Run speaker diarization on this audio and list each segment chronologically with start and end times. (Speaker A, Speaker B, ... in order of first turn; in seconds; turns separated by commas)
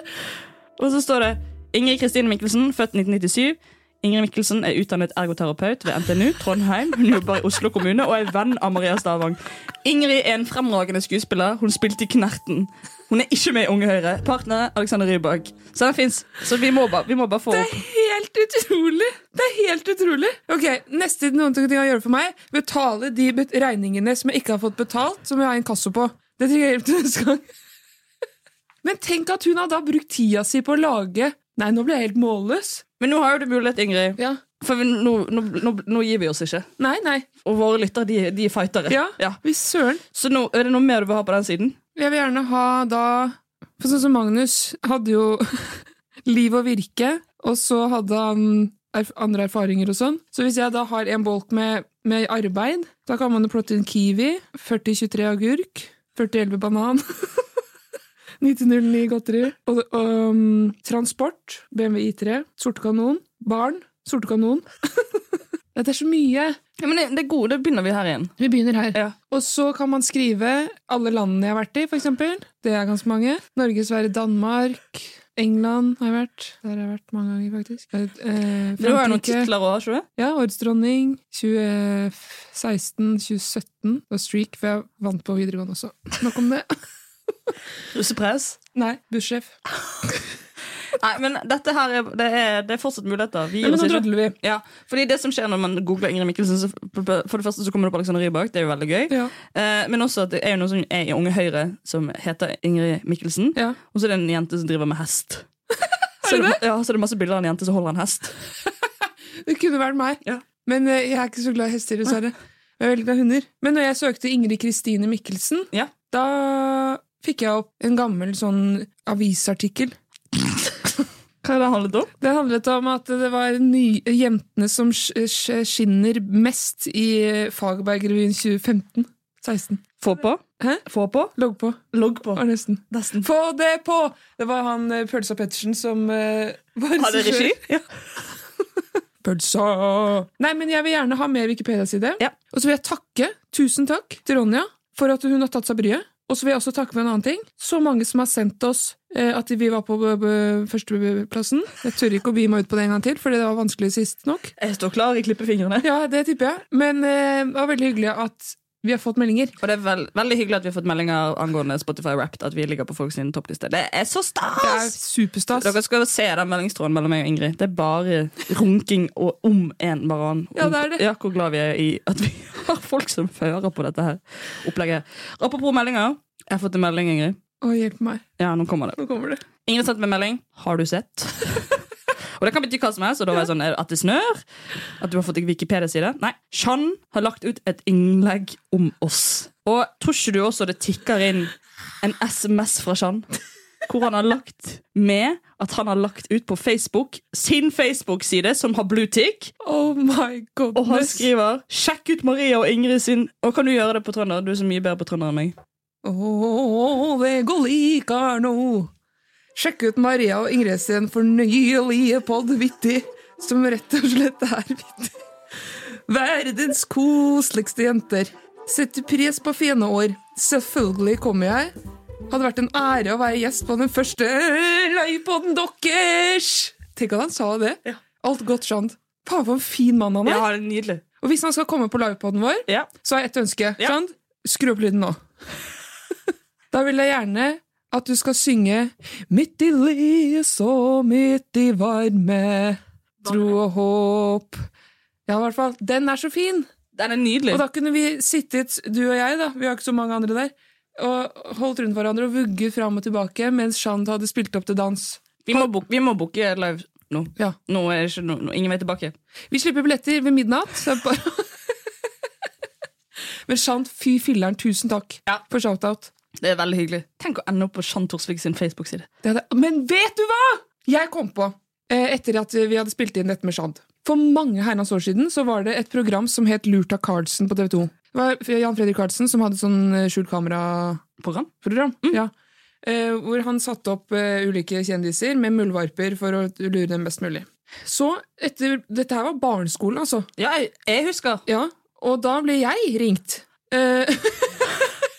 Speaker A: 0.8-17.8, Speaker B: 17.5-27.5, Speaker B: 28.8-32.8, Speaker A: 33.0-36.7, Speaker B: 36.8-37.3, Speaker A: 37.4-39.4, Speaker B: 38.9-40.0, Speaker A: 40.1-41.8, Speaker B: 42.0-57.4, Speaker B: 58.4-65.2, Speaker B: 65.8-66.6, Speaker A: 66.8-68.3, Speaker B: 68.4-79.5, Speaker A: 78.8-80.0, Speaker B: 80.2-86.7, Speaker A: 87.9-88.6, Speaker B: 88.8-89.6, Speaker A: 91.0-105.5, Speaker B: 93.6-94.4, Speaker B: 106.2-106.6, Speaker A: 106.2-108.3, Speaker B: 109.4-120.0, Speaker A: 121.4-122.1, Speaker B: 122.2-129.8, Speaker A: 130.0-131.3, Speaker B: 131.4-131.8, Speaker A: 131.9-133.3, Speaker B: 132.3-137.6, Speaker A: 137.0-137.8, Speaker B: 139.2-154.5, Speaker A: 154.6-155.9, Speaker B: 155.8-159.6, Speaker A: 159.6-164.9, Speaker B: 164.6-165.7, Speaker A: 165.5-177.4, Speaker B: 170.6-171.0, Speaker B: 177.6-178.2, Speaker A: 178.4-179.0, Speaker B: 179.0-179.4, Speaker A: 179.7-181.8, Speaker A: 182.4-184.4, Speaker A: 185.0-193.3, Speaker A: 193.9-199.5, Speaker B: 199.6-201.3, Speaker A: 200.8-205.6, Speaker B: 206.0-208.9, Speaker B: 209.6-215.1, Speaker B: 216.1-221.7, Speaker B: 222.3-230.5, Speaker A: 230.3-231.0, Speaker B: 231.2-235.2, Speaker B: 236.7-244.7, Speaker B: 245.3-246.7, Speaker A: 247.0-247.7, Speaker B: 247.5-255.6, Speaker A: 255.5-259.1, Speaker B: 259.5-261.5, Speaker B: 263.5-266.1, Speaker A: 266.4-269.1, Speaker B: 269.2-281.0, Speaker A: 281.2-281.5, Speaker B: 281.6-282.3, Speaker B: 282.8-290.3, Speaker A: 290.4-291.4, Speaker B: 291.5-294.7